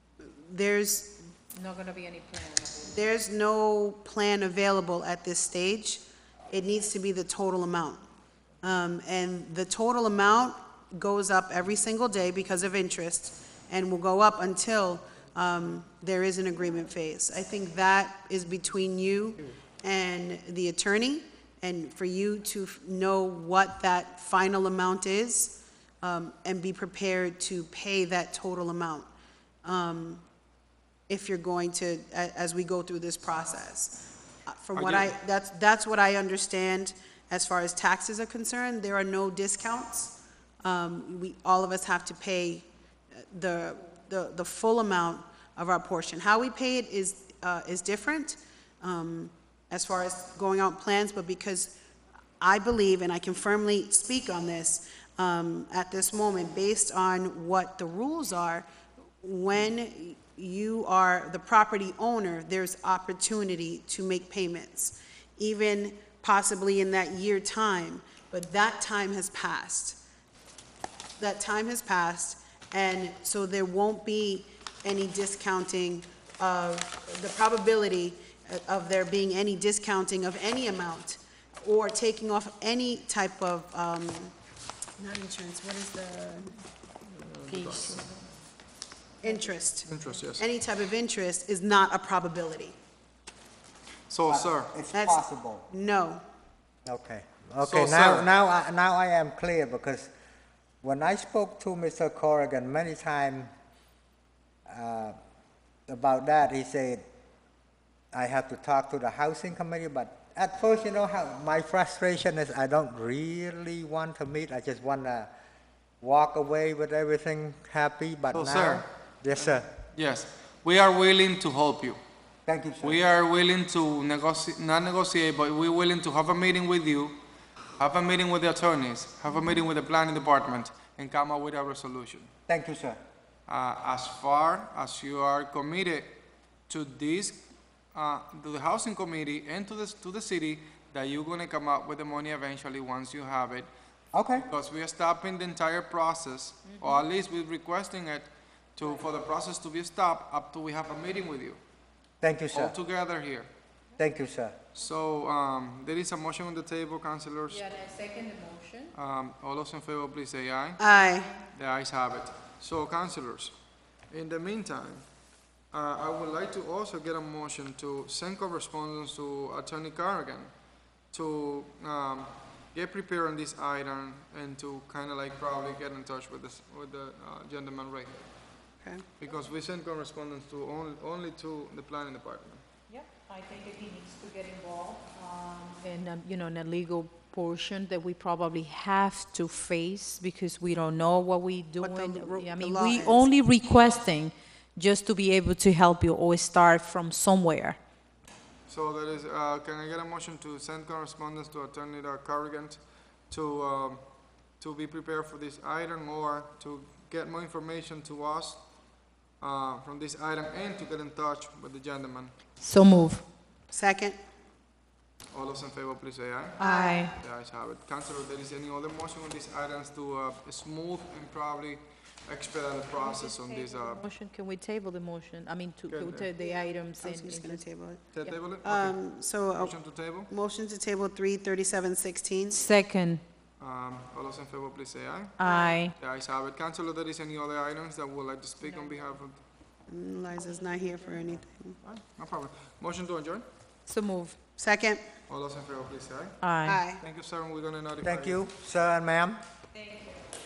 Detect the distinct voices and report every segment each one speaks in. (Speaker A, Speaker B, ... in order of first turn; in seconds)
Speaker A: 0.2-1.2, 2.9-8.1, 8.6-29.1, 29.6-30.2, 31.1-51.8, 52.4-58.7, 59.2-70.0, 71.2-84.3, 85.0-86.5, 89.2-92.8, 94.9-96.2, 160.8-161.3, 178.8-179.1, 191.8-193.3, 213.7-214.2, 216.6-217.0, 226.4-228.1, 228.6-229.8, 230.3-232.6, 235.4-235.8, 239.9-241.8, 244.6-245.0, 246.6-247.1
Speaker B: 1.5-3.1, 87.7-88.0, 89.2-90.1, 146.7-147.0, 157.5-158.9, 160.9-161.4, 182.9-197.8, 212.6-213.3, 216.6-217.2, 223.0-228.4, 232.5-233.2, 235.4-236.0, 238.6-239.2, 240.3-241.4, 243.9-244.4, 246.4-246.8, 249.8-250.1
Speaker C: 34.8-35.1, 87.1-88.1, 89.9-90.5, 94.1-94.7, 97.6-98.3, 118.3-122.0, 122.8-127.2, 127.8-132.3, 133.5-143.7, 144.4-151.6, 152.5-153.5, 154.8-157.6, 158.9-160.8, 161.5-163.6, 164.1-165.1, 165.7-170.5, 171.1-178.3, 179.2-182.6, 198.7-208.7, 209.4-212.4, 215.3-216.6, 217.2-224.0, 225.9-226.3, 228.1-230.3, 233.6-235.4, 235.9-239.4, 241.8-243.4, 245.3-246.4, 247.0-248.4
Speaker D: 94.3-95.7, 96.9-100.1, 100.8-103.5, 104.7-105.2, 105.9-107.0, 108.1-115.3, 116.0-119.7, 122.5-123.0, 132.5-133.0, 144.1-144.5, 152.2-152.8, 154.0-154.6, 248.0-249.4